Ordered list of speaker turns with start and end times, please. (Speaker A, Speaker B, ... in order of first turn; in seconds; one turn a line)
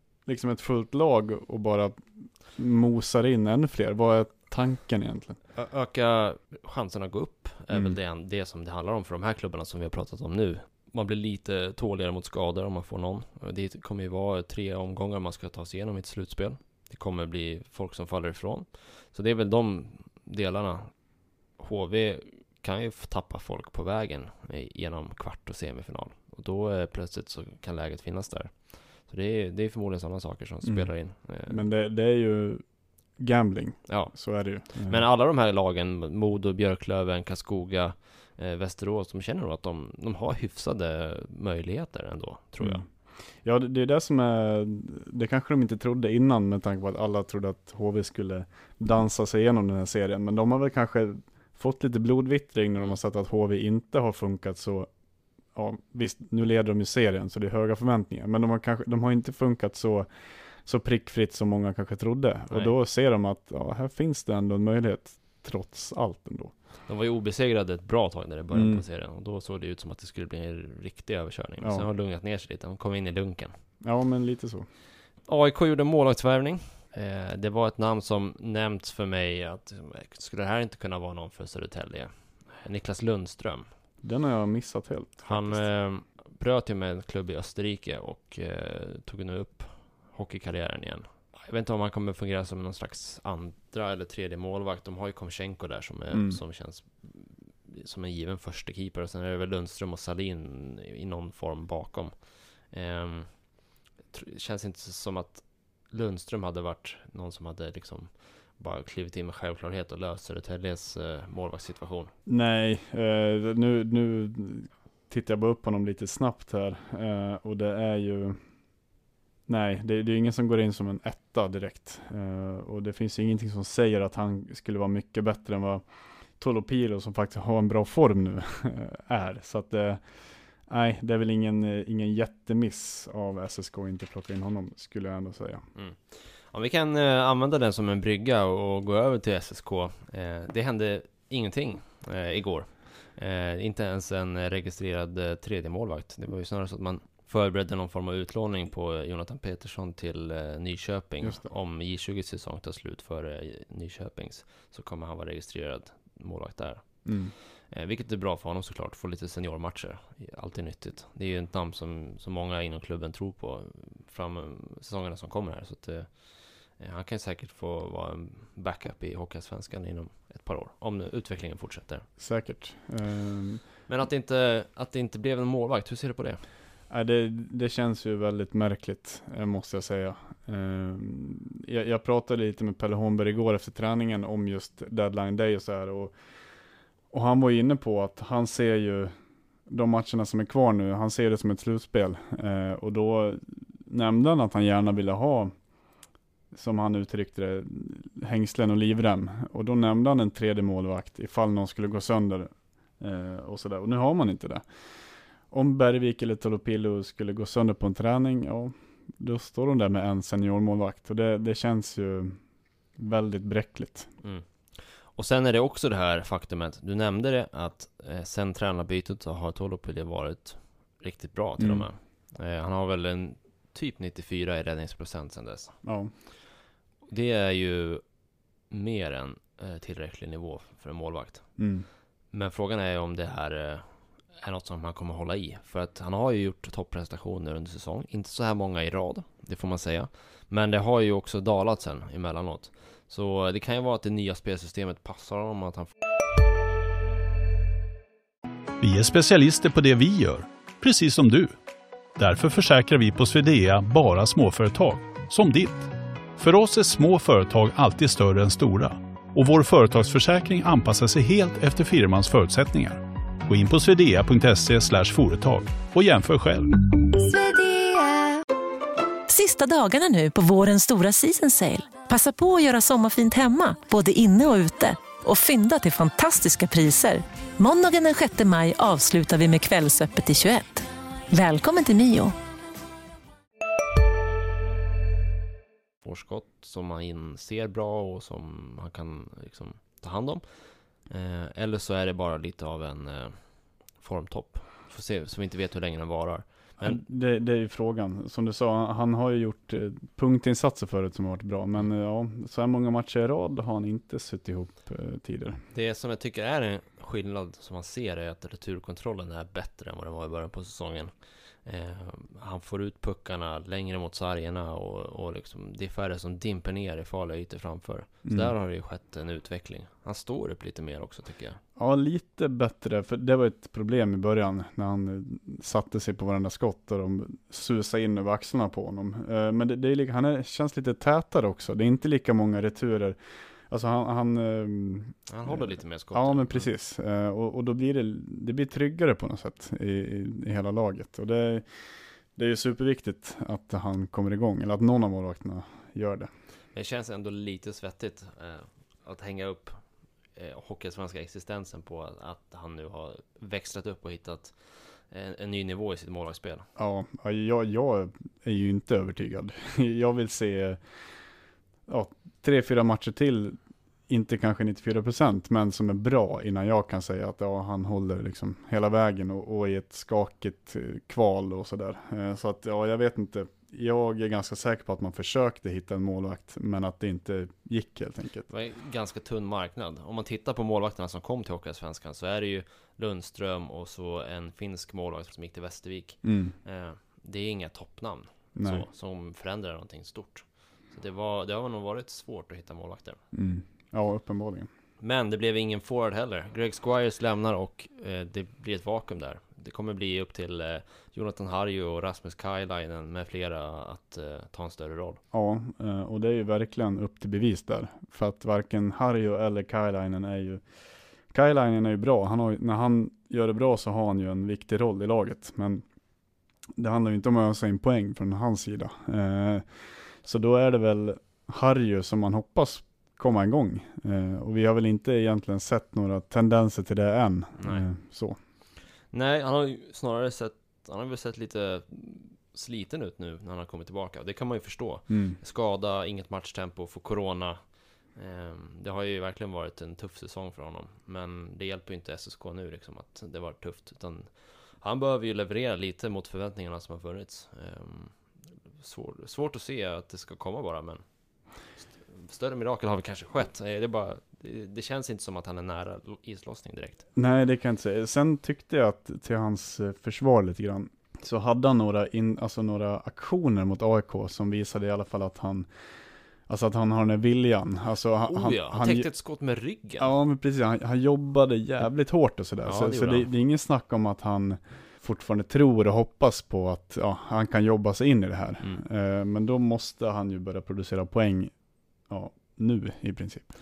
Speaker A: 0.3-5.4
Speaker B: 5.5-20.9
Speaker B: 21.6-31.7
Speaker A: 30.6-32.6
Speaker A: 33.2-35.0
Speaker B: 33.9-42.8
Speaker A: 42.6-54.9
Speaker A: 55.5-60.1
Speaker A: 60.6-66.5
Speaker B: 66.9-73.5
Speaker A: 68.5-68.8
Speaker A: 71.6-71.9
Speaker A: 73.8-74.7
Speaker B: 75.3-83.7
Speaker A: 84.0-85.6
Speaker B: 85.3-103.5
Speaker A: 96.1-96.4
Speaker B: 104.1-112.1
Speaker A: 112.3-118.4
Speaker A: 119.5-125.8
Speaker A: 126.4-130.1
Speaker A: 130.7-135.6
Speaker B: 135.8-157.1
Speaker A: 151.2-151.5
Speaker A: 157.1-157.3
Speaker B: 157.6-172.1
Speaker A: 172.2-173.7
Speaker B: 173.9-176.4
Speaker A: 176.9-186.2
Speaker A: 187.1-189.1
Speaker A: 189.7-195.5
Speaker A: 196.5-204.7
Speaker A: 205.5-212.4
Speaker A: 213.0-214.1
Speaker B: 214.2-225.8
Speaker A: 221.6-221.9
Speaker A: 225.8-226.1
Speaker B: 227.1-228.0
Speaker B: 228.7-231.6
Speaker A: 231.6-231.9
Speaker B: 232.3-245.9
Speaker C: 248.8-251.6
Speaker C: 252.2-266.7
Speaker D: 267.1-268.3
Speaker D: 269.3-282.4
Speaker B: 286.0-290.4
Speaker B: 291.1-297.0
Speaker A: 296.8-305.6
Speaker B: 305.7-321.6
Speaker A: 318.2-318.5
Speaker A: 321.8-341.7
Speaker B: 335.3-336.7
Speaker A: 342.4-346.3
Speaker B: 346.7-349.8
Speaker B: 350.4-356.7
Speaker A: 356.8-360.8
Speaker A: 361.9-363.6
Speaker A: 364.1-378.5
Speaker B: 378.5-393.2
Speaker A: 386.2-386.6
Speaker A: 388.6-388.9
Speaker A: 393.3-394.7
Speaker B: 395.0-405.2
Speaker A: 405.3-410.6
Speaker A: 411.3-415.9
Speaker A: 416.8-428.4
Speaker B: 427.6-427.9
Speaker B: 429.1-448.3
Speaker A: 435.1-435.4
Speaker B: 448.8-451.0
Speaker B: 452.1-457.0
Speaker A: 457.2-465.7
Speaker A: 466.5-469.1
Speaker B: 468.3-470.1
Speaker A: 470.0-481.5
Speaker B: 472.6-473.3
Speaker A: 482.1-483.5